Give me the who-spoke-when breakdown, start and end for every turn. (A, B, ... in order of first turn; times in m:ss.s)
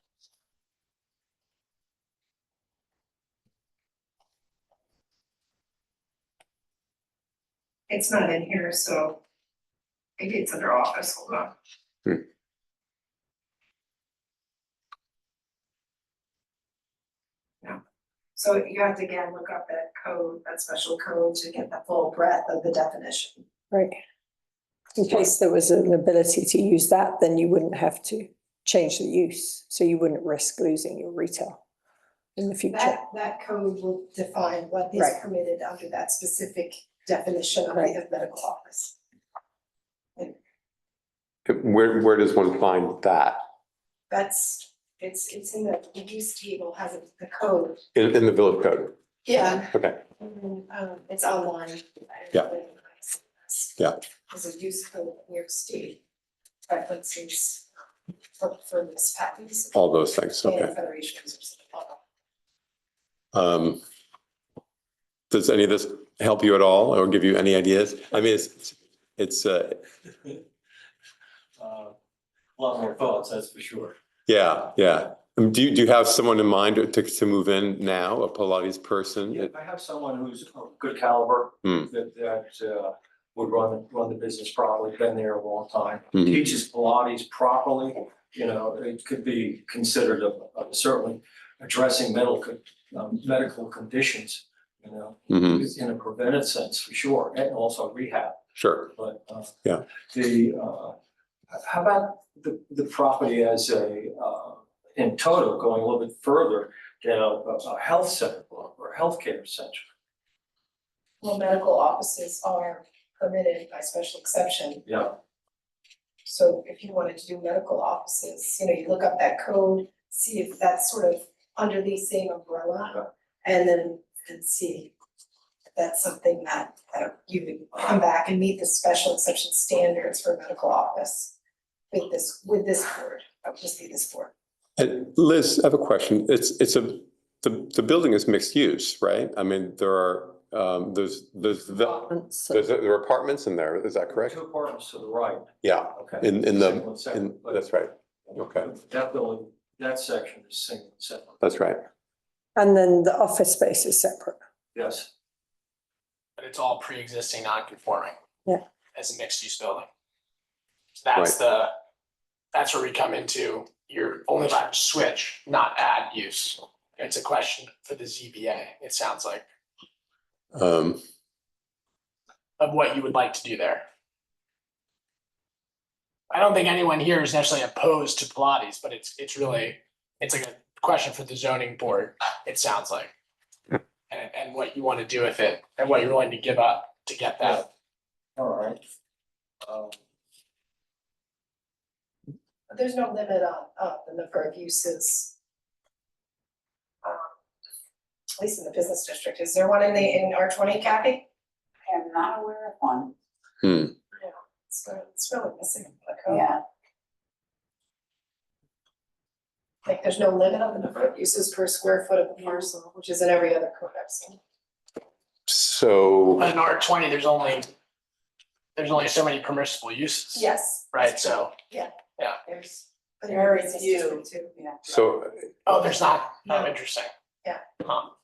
0:07.9-0:09.2 A
0:10.2-0:11.5 A
0:18.4-0:23.5 A
0:23.7-0:24.0 B
0:25.0-0:31.6 B
0:32.4-0:33.0 B
0:32.7-0:39.0 A
0:41.4-0:43.4 C
0:44.1-0:47.8 A
0:48.0-0:49.0 C
0:49.2-0:56.0 A
0:49.7-0:50.0 C
0:56.7-0:57.7 A
0:58.4-0:59.8 A
0:59.7-1:00.7 C
1:00.4-1:02.0 A
1:03.3-1:03.8 C
1:05.3-1:09.9 C
1:11.6-1:12.0 D
1:12.6-1:14.0 D
1:14.3-1:19.5 C
1:19.3-1:38.3 D
1:38.6-1:38.9 C
1:38.9-1:39.5 D
1:40.1-1:40.9 D
1:41.6-1:49.8 D
1:51.2-1:54.9 A
1:56.2-2:04.9 A
2:05.8-2:11.3 A
2:11.9-2:14.3 A
2:14.8-2:24.4 C
2:21.9-2:22.6 B
2:24.1-2:27.6 D
2:25.6-2:28.7 C
2:28.3-2:31.4 D
2:31.4-2:31.9 C
2:32.6-2:34.4 B
2:34.7-2:35.1 D
2:36.4-2:38.2 E
2:39.0-2:39.9 E
2:41.0-2:41.7 E
2:42.5-2:49.4 E
2:50.5-2:51.0 C
2:52.6-2:53.8 E
2:56.3-3:03.1 E
3:04.1-3:07.7 E
3:08.4-3:08.8 D
3:09.6-3:10.0 D
3:12.7-3:15.3 A
3:17.0-3:17.3 A
3:18.4-3:21.2 A
3:21.9-3:23.1 F
3:23.6-3:23.9 C
3:24.2-3:26.5 A
3:26.3-3:26.6 F
3:29.8-3:34.4 A
3:35.5-3:36.5 C
3:36.4-3:37.7 E
3:38.8-3:41.5 E
3:40.3-3:44.6 A
3:43.3-3:44.9 F
3:44.8-3:45.8 C
3:45.7-3:47.1 E
3:47.8-3:48.1 E